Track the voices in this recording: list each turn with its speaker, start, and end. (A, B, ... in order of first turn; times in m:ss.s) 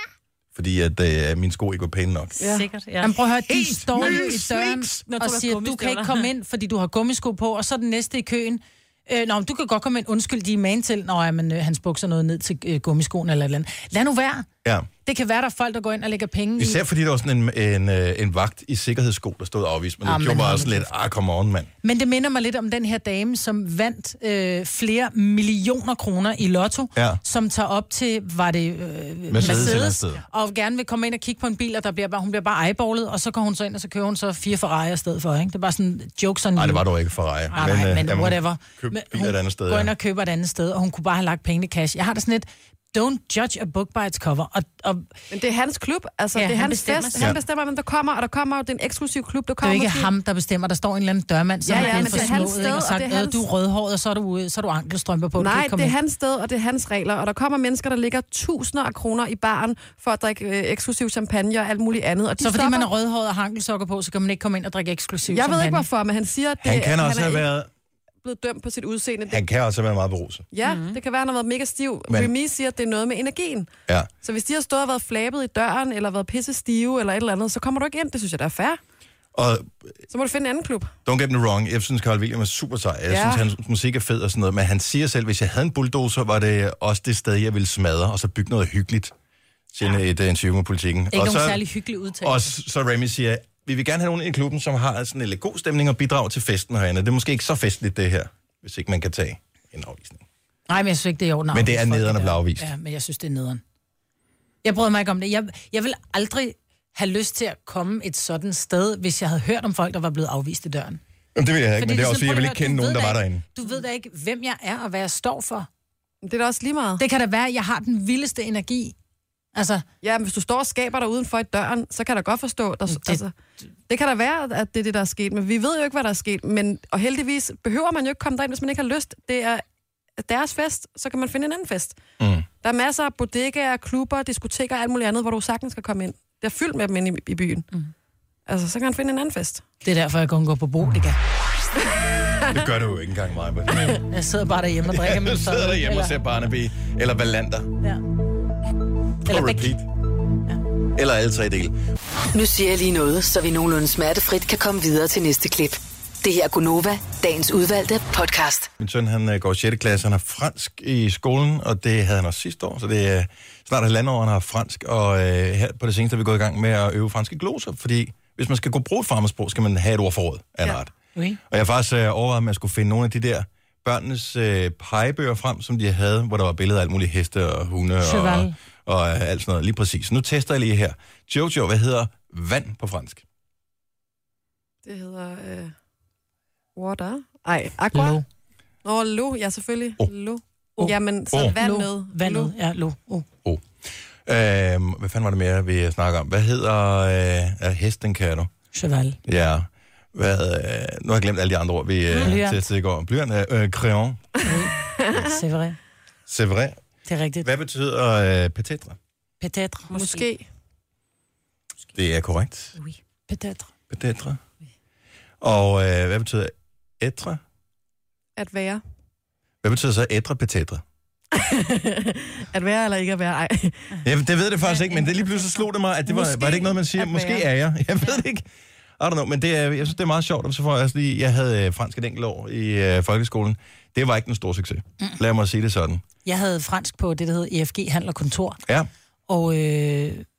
0:00.6-0:02.4 A
0:02.4-0:02.7 B
0:02.4-0:03.2 C
0:03.0-0:14.5 D
0:03.4-0:05.0 A
0:04.0-0:04.3 C
0:05.1-0:06.3 C
0:14.6-0:14.9 A
0:15.0-0:16.8 D
0:16.6-0:21.7 A
0:20.0-0:20.9 D
0:21.8-0:36.9 D
0:27.0-0:27.2 A
0:29.3-0:30.2 A
0:36.6-0:39.9 A
0:37.5-0:45.1 D
0:45.3-0:50.1 B
0:46.4-0:47.3 C
0:49.6-0:56.0 D
0:51.6-0:53.5 B
0:51.7-0:52.7 C
0:55.4-1:02.9 B
1:02.4-1:05.9 D
1:05.3-1:07.5 B
1:06.6-1:07.7 A
1:08.2-1:09.4 B
1:09.3-1:10.5 A
1:10.5-1:13.7 B
1:10.6-1:11.0 C
1:14.2-1:18.8 B
1:19.4-1:20.0 A
1:20.1-1:20.9 B
1:21.0-1:29.1 A
1:23.1-1:23.5 B
1:29.7-1:31.6 A
1:31.1-1:32.5 D
1:32.2-1:40.2 A
1:40.7-1:43.6 D
1:41.5-1:42.7 A
1:44.6-1:51.0 D
1:51.4-1:53.4 A
1:51.8-1:55.7 D
1:56.2-1:57.0 B
1:57.0-1:59.0 D
1:59.5-1:59.8 D
2:00.0-2:03.4 B
2:02.9-2:03.2 D
2:03.9-2:09.6 B
2:10.2-2:12.0 B
2:12.2-2:12.5 A
2:12.6-2:17.7 B
2:18.5-2:19.6 B
2:19.8-2:21.2 D
2:21.9-2:22.6 B
2:22.5-2:24.0 A
2:23.7-2:26.2 D
2:24.9-2:27.7 A
2:29.3-2:29.9 A
2:29.3-2:29.7 D
2:31.0-2:31.7 A
2:32.3-2:38.7 E
2:38.8-2:51.0 A
2:51.2-2:51.4 D
2:51.5-3:03.2 A
2:58.0-2:58.5 D
3:04.8-3:05.7 B
3:06.8-3:08.2 B
3:07.9-3:08.2 D
3:08.8-3:12.5 B
3:10.8-3:13.3 D
3:13.4-3:18.5 A
3:18.7-3:19.2 D
3:19.3-3:24.4 A
3:22.2-3:22.6 D
3:24.4-3:25.8 D
3:24.5-3:25.4 B
3:26.3-3:26.8 A
3:27.1-3:27.5 D
3:27.4-3:29.0 A
3:29.4-3:29.9 D
3:29.9-3:30.3 C
3:29.9-3:30.5 B
3:32.0-3:32.7 A
3:33.3-3:33.7 D
3:33.9-3:34.4 A
3:35.4-3:37.4 A
3:38.4-3:38.8 B
3:39.6-3:40.8 A
3:41.3-3:43.9 B
3:44.0-3:48.4 A
3:44.7-3:45.2 C
3:46.2-3:47.4 B
3:46.3-3:46.6 D
3:49.0-3:56.0 A
3:56.2-3:58.6 D
3:59.3-4:00.2 D